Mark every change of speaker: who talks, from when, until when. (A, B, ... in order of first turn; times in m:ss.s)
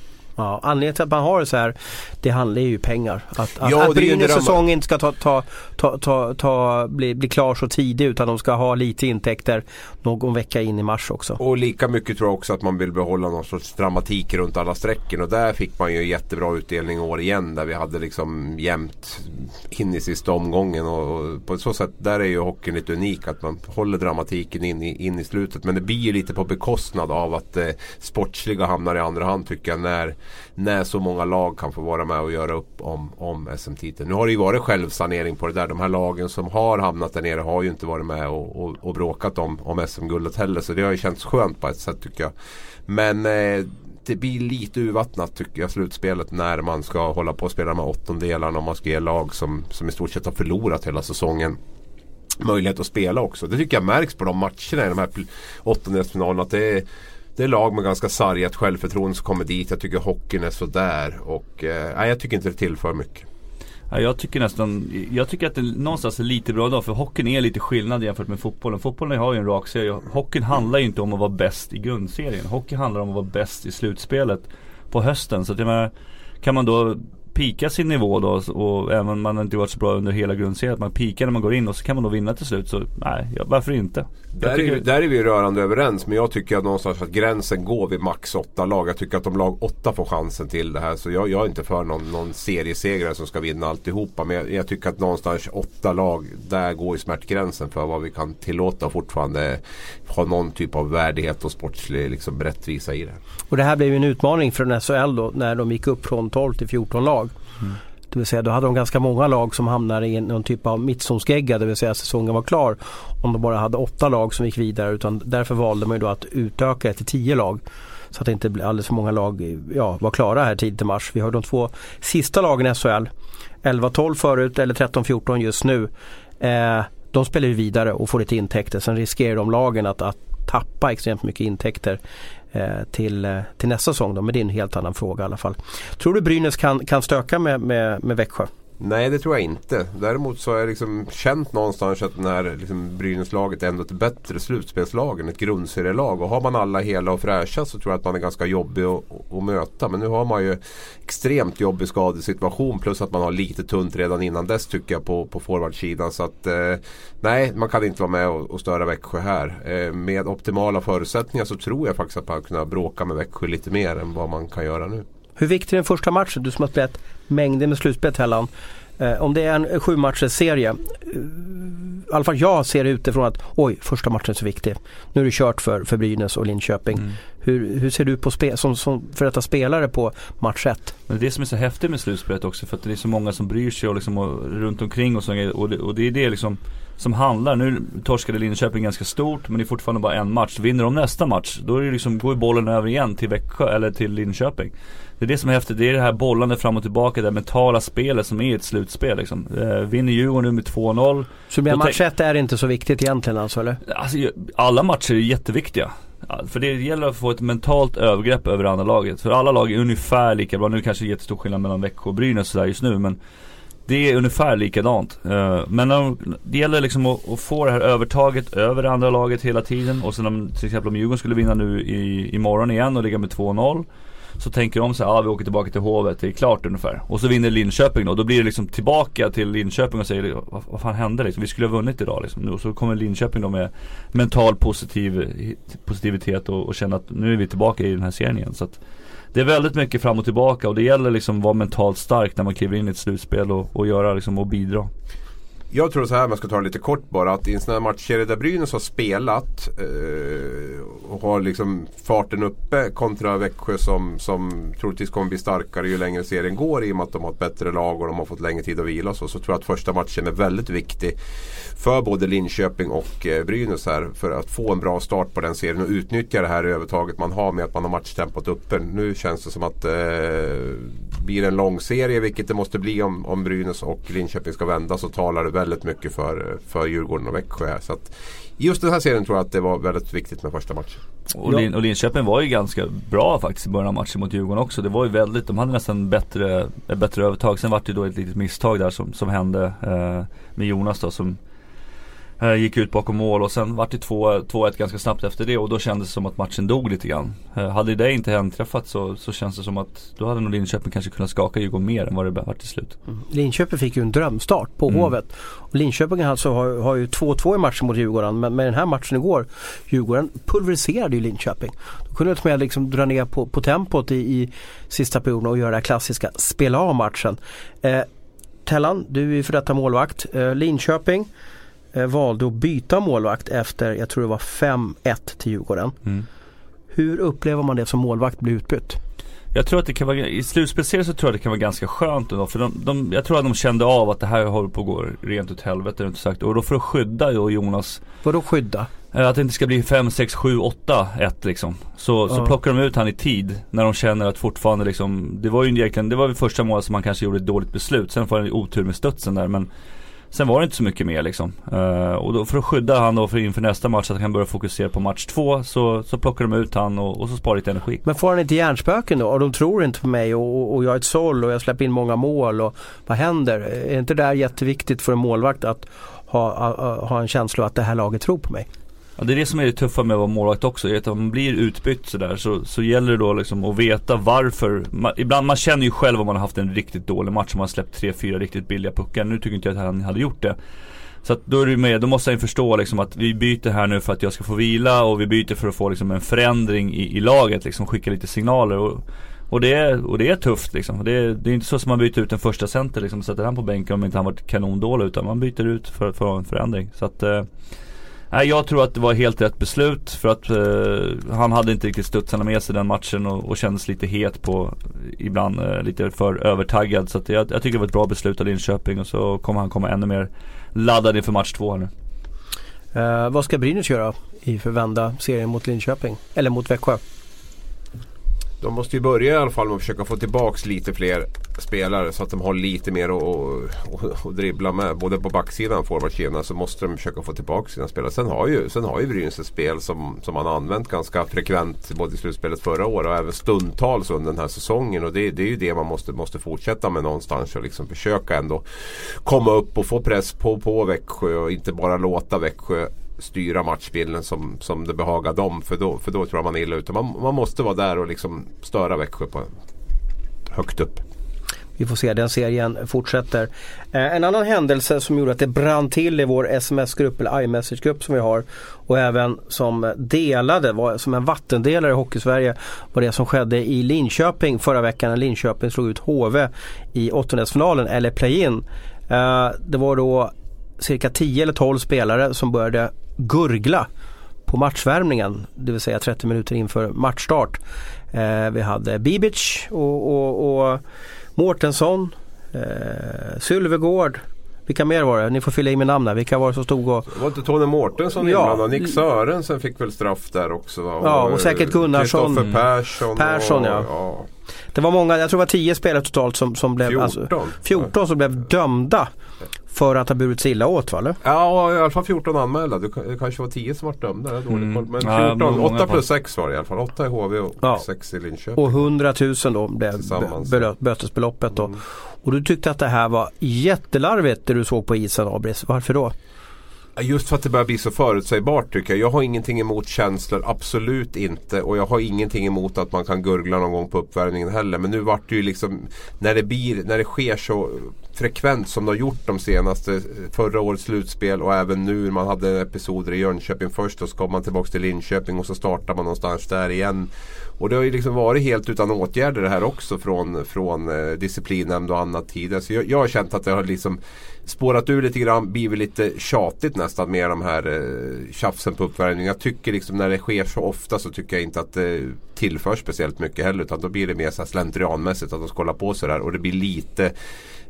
0:00.4-0:11.4 A
0:03.6-0:04.6 B
0:11.4-0:42.3 B
0:42.9-0:51.6 B
0:52.4-1:03.2 B
1:03.9-1:15.9 C
1:16.4-1:24.8 C
1:24.3-1:43.2 B
1:43.5-1:47.3 A
1:48.1-1:57.6 A
1:58.1-2:03.1 A
2:03.6-2:12.0 A
2:12.5-2:18.5 A
2:18.8-2:45.0 B
2:45.4-3:00.9 A
3:01.1-3:22.0 C
3:21.5-3:23.8 A
3:23.8-3:33.2 C
3:33.8-3:43.8 C
3:44.4-3:58.8 C
3:59.3-4:04.9 C
4:05.7-4:41.0 B
4:41.3-4:51.4 C
4:52.4-5:03.0 C
5:03.1-5:18.1 A
5:18.6-5:21.3 A
5:21.9-5:26.0 A
5:26.9-5:29.0 A
5:29.5-5:38.0 C
5:38.2-5:38.9 A
5:39.1-5:49.7 C
5:50.3-5:58.0 C
5:58.0-6:08.7 A
6:09.2-6:20.6 C
6:21.2-6:37.5 C
6:38.3-6:51.9 C
6:52.9-6:57.0 A
6:58.6-7:29.5 B
7:30.5-7:31.0 B
7:31.8-7:53.9 A
7:54.4-7:57.6 A
7:58.1-8:00.8 A
8:01.4-8:07.1 A
8:07.1-8:14.3 B
8:08.2-8:08.9 A
8:11.0-8:12.5 A
8:13.1-8:13.9 A
8:14.7-8:19.1 A
8:16.8-8:17.9 B
8:19.7-8:21.2 A
8:21.2-8:28.8 B
8:24.5-8:26.0 C
8:28.6-8:36.1 A
8:30.0-8:30.7 B
8:37.0-9:17.1 B